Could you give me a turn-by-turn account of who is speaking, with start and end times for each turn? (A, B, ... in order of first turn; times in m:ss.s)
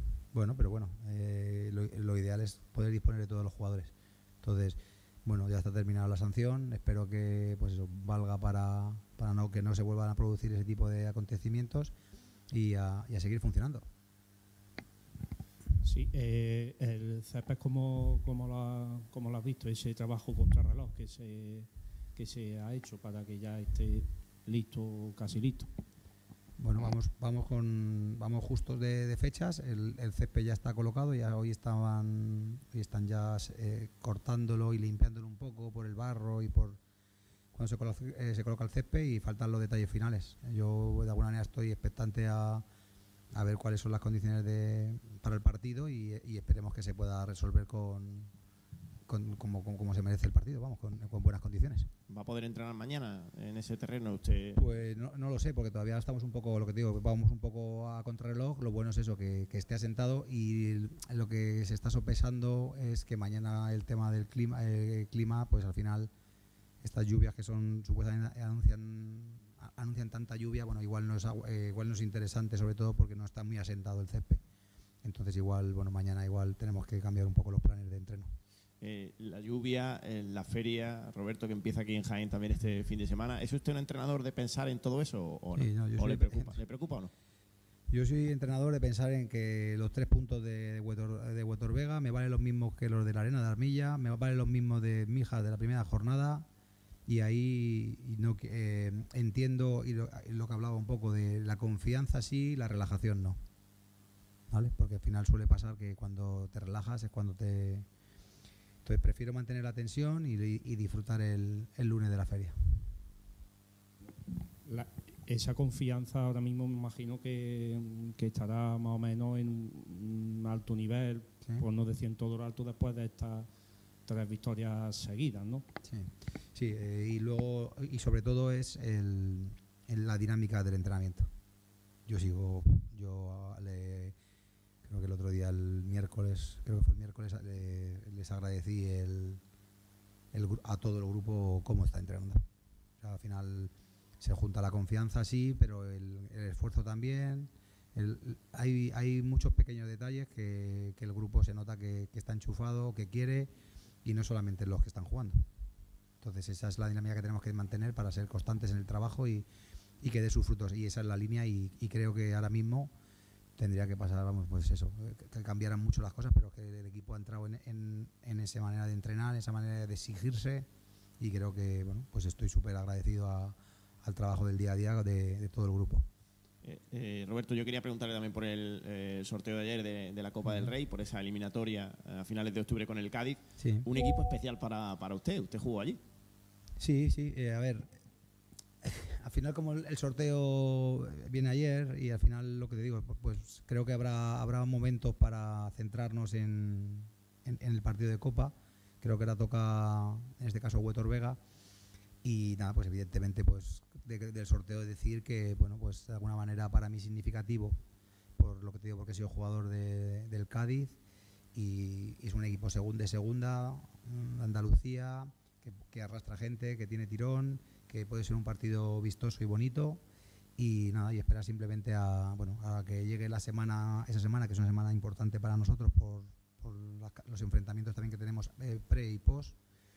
0:00.3-0:11.9 A
0:12.5-0:13.8 A
0:15.8-0:25.7 B
0:26.6-0:36.8 A
0:37.5-0:42.6 A
0:43.3-0:48.3 A
0:49.1-0:51.9 A
0:52.1-0:54.6 C
0:54.6-1:06.1 A
1:06.8-1:14.4 A
1:15.0-1:18.4 A
1:18.8-1:27.1 C
1:25.6-1:26.6 A
1:27.9-1:36.4 A
1:37.1-1:43.4 A
1:44.5-1:47.9 A
1:48.8-1:52.9 A
1:54.7-2:03.5 B
2:04.1-2:05.7 B
2:05.8-2:11.3 A
2:12.1-2:14.2 A
2:14.8-2:19.4 A
2:20.3-2:22.4 A
2:23.0-2:33.5 A
2:34.0-2:35.4 A
2:36.2-2:39.5 A
2:40.0-2:42.9 A
2:43.6-2:50.7 A
2:51.2-2:56.1 A
2:56.6-3:06.0 C
3:00.4-3:00.7 A
3:03.6-3:03.9 A
3:06.8-3:08.0 A
3:08.8-3:21.4 A
3:22.2-3:27.8 A
3:28.4-3:31.0 A
3:31.5-3:40.0 A
3:40.6-3:49.6 A